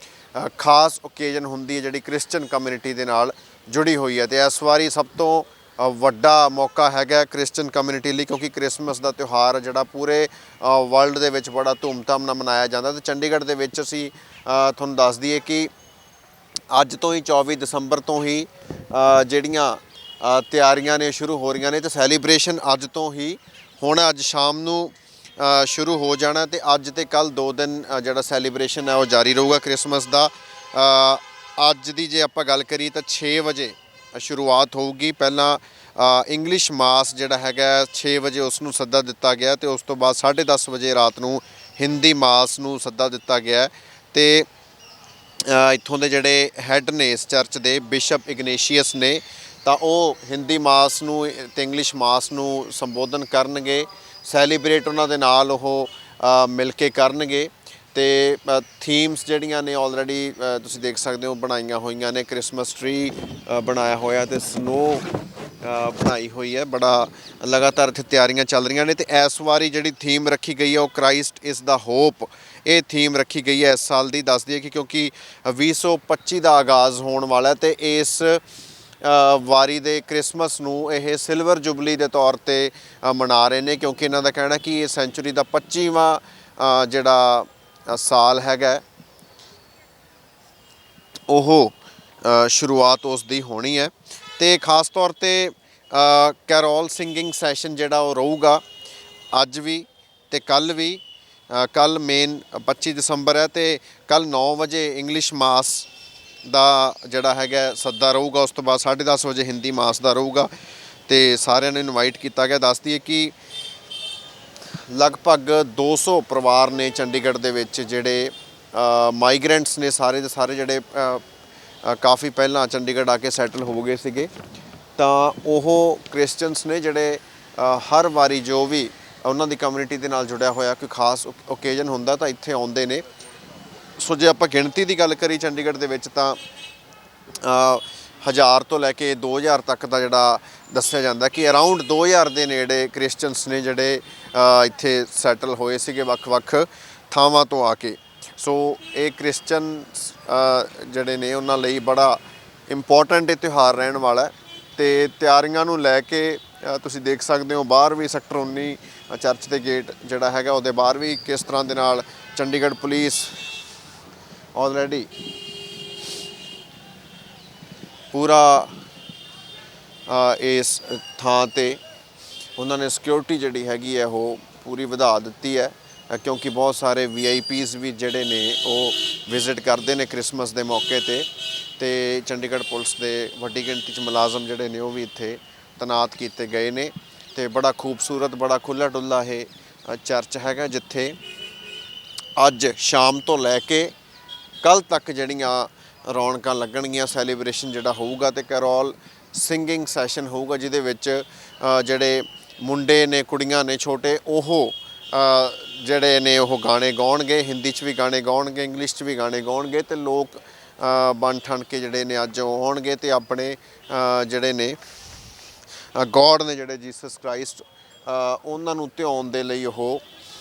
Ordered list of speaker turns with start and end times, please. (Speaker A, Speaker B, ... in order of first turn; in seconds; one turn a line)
Speaker A: 0.3-15.7
Speaker A: 16.7-44.5
Speaker A: 45.5-65.1
Speaker A: 65.6-78.4
Speaker A: 79.0-88.8
Speaker A: 91.3-98.6
Speaker A: 99.3-105.9
Speaker A: 106.4-110.5
Speaker A: 111.1-113.3
Speaker A: 114.9-121.2
Speaker A: 121.8-124.3
Speaker A: 125.0-133.1
Speaker A: 134.0-136.4
Speaker A: 137.4-163.4
Speaker A: 164.6-165.1
Speaker A: 168.1-168.8
Speaker A: 170.1-171.8
Speaker A: 172.6-191.2
Speaker A: 192.4-193.9
Speaker A: 194.6-214.8
Speaker A: 215.9-220.0